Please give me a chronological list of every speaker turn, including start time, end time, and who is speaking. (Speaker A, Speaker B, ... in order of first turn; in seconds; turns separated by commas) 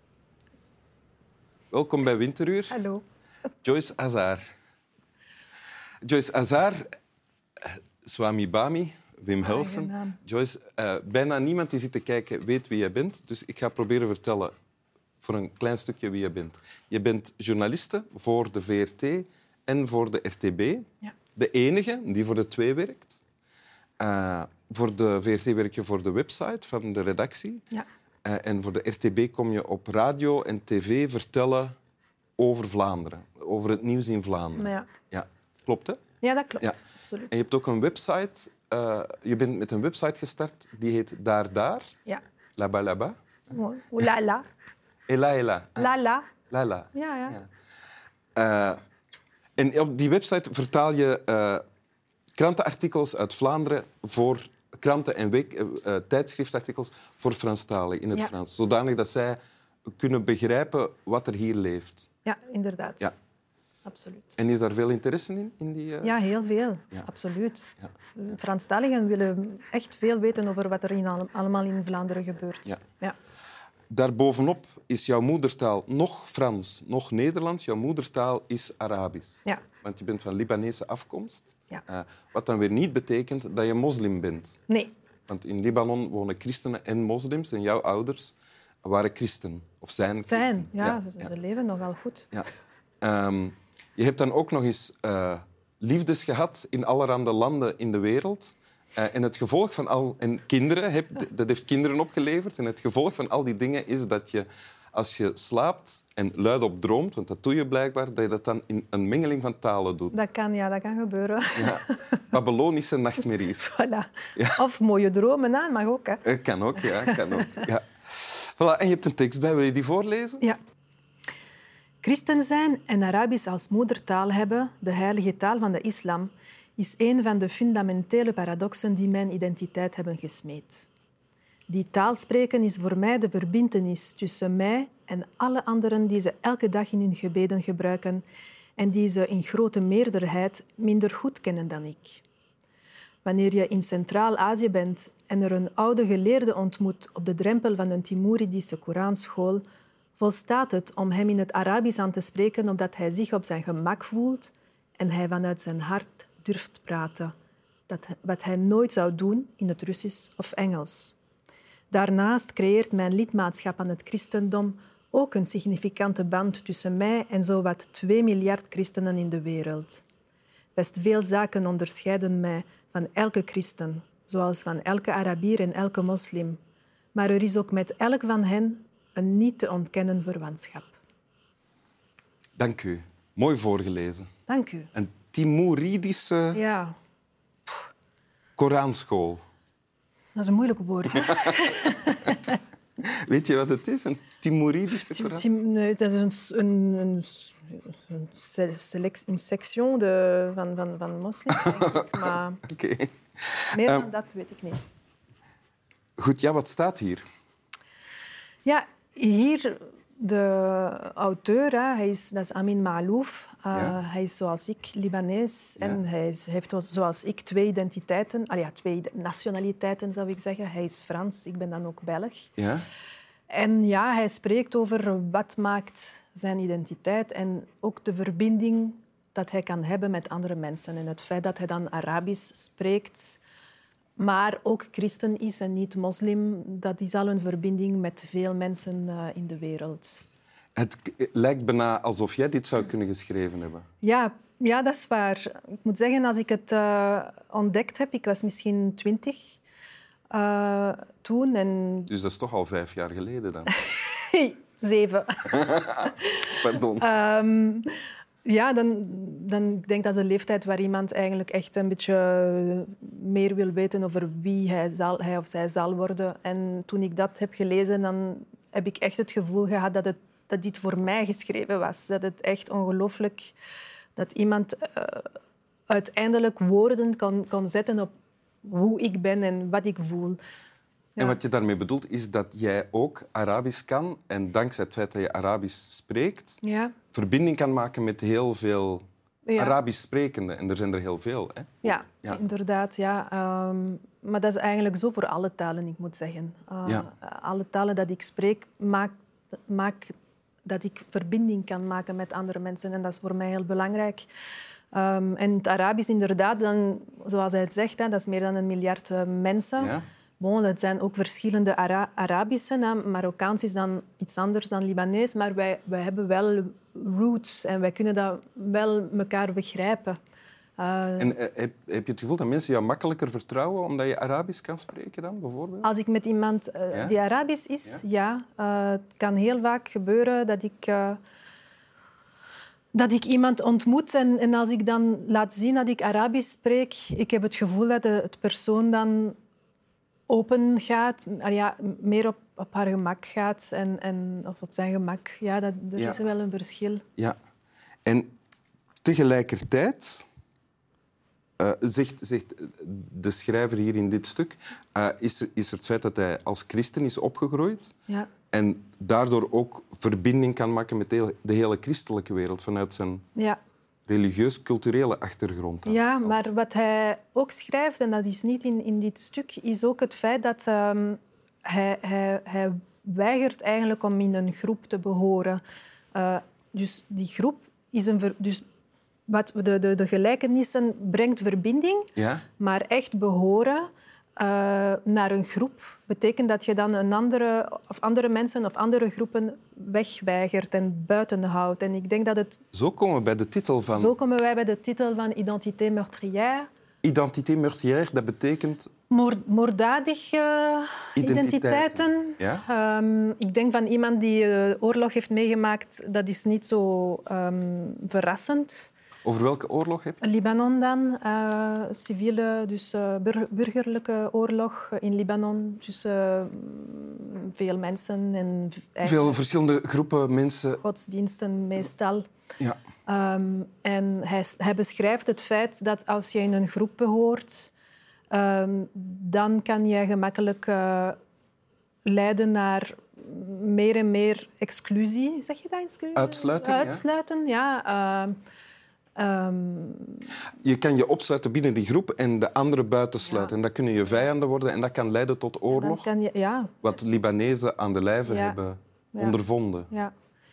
Speaker A: 1.7-2.8, Speaker B: 2.7-3.0, Speaker A: 3.6-4.5, Speaker A: 6.0-6.9, Speaker A: 7.6-14.5, Speaker B: 9.4-10.2, Speaker A: 15.2-20.9, Speaker A: 21.4-23.2, Speaker A: 24.0-27.6, Speaker A: 28.2-31.7, Speaker A: 32.4-36.0, Speaker B: 34.6-34.9, Speaker B: 36.2-37.4, Speaker A: 37.3-41.9, Speaker A: 42.6-43.1, Speaker B: 43.5-44.5, Speaker A: 45.1-45.9, Speaker B: 45.8-46.3, Speaker A: 46.5-47.5, Speaker B: 46.9-47.4, Speaker A: 48.4-48.8, Speaker A: 49.6-51.6, Speaker A: 52.4-59.4, Speaker A: 59.9-62.1, Speaker B: 62.2-63.1, Speaker B: 63.9-64.3, Speaker A: 64.4-66.2, Speaker B: 66.0-73.2, Speaker A: 73.9-84.6, Speaker B: 84.7-84.9, Speaker A: 85.3-91.1, Speaker B: 90.3-92.3, Speaker A: 93.0-110.2, Speaker B: 110.1-112.2, Speaker A: 111.6-113.7, Speaker B: 113.6-116.2, Speaker A: 116.2-120.4, Speaker B: 116.8-117.6, Speaker B: 122.0-130.9, Speaker B: 131.7-138.2, Speaker B: 138.8-142.2, Speaker B: 143.2-149.6, Speaker B: 150.2-157.3, Speaker B: 157.9-161.2, Speaker B: 161.9-170.0, Speaker B: 170.8-176.6, Speaker B: 177.1-180.9, Speaker A: 182.6-184.3, Speaker B: 184.5-184.9, Speaker A: 184.9-186.6, Speaker B: 186.5-187.0, Speaker A: 188.6-189.4, Speaker B: 190.4-192.6, Speaker A: 191.2-191.5, Speaker A: 193.0-195.5, Speaker B: 195.1-202.6, Speaker A: 201.5-204.1, Speaker B: 203.7-204.8, Speaker A: 206.2-207.2, Speaker B: 208.7-222.5, Speaker A: 222.6-222.9, Speaker B: 223.5-233.4, Speaker B: 234.2-240.2, Speaker A: 240.8-243.9, Speaker B: 244.0-249.6, Speaker B: 250.3-252.1, Speaker A: 252.1-253.7, Speaker B: 253.9-257.9, Speaker A: 255.6-257.1, Speaker B: 258.4-273.5, Speaker B: 274.2-278.1, Speaker B: 278.6-280.4, Speaker A: 281.2-286.6, Speaker B: 286.6-286.9, Speaker A: 287.1-289.0, Speaker B: 289.5-289.8, Speaker A: 289.6-292.4, Speaker B: 291.8-299.1, Speaker B: 299.7-304.3, Speaker B: 304.9-320.2, Speaker A: 309.8-310.1, Speaker B: 320.8-321.4, Speaker A: 321.2-325.9, Speaker B: 325.8-331.2, Speaker B: 332.9-339.4, Speaker B: 340.3-347.0, Speaker A: 348.1-348.3, Speaker A: 349.0-350.2, Speaker A: 351.6-357.9, Speaker A: 358.5-363.2, Speaker A: 364.1-366.3, Speaker B: 365.9-375.6, Speaker B: 376.1-378.6, Speaker B: 379.3-392.6, Speaker A: 382.2-382.4, Speaker A: 392.7-394.1, Speaker B: 393.9-396.7, Speaker A: 397.0-398.9, Speaker B: 399.1-408.9, Speaker A: 401.2-402.6, Speaker A: 409.2-410.2, Speaker B: 410.2-419.4, Speaker A: 419.0-420.8, Speaker B: 420.8-422.3, Speaker B: 423.1-427.7, Speaker B: 428.3-431.2, Speaker B: 432.1-438.4, Speaker A: 436.1-437.0, Speaker B: 439.2-440.3, Speaker A: 440.6-446.1, Speaker B: 443.3-443.5, Speaker B: 445.7-446.7, Speaker A: 446.8-449.9, Speaker B: 448.3-448.6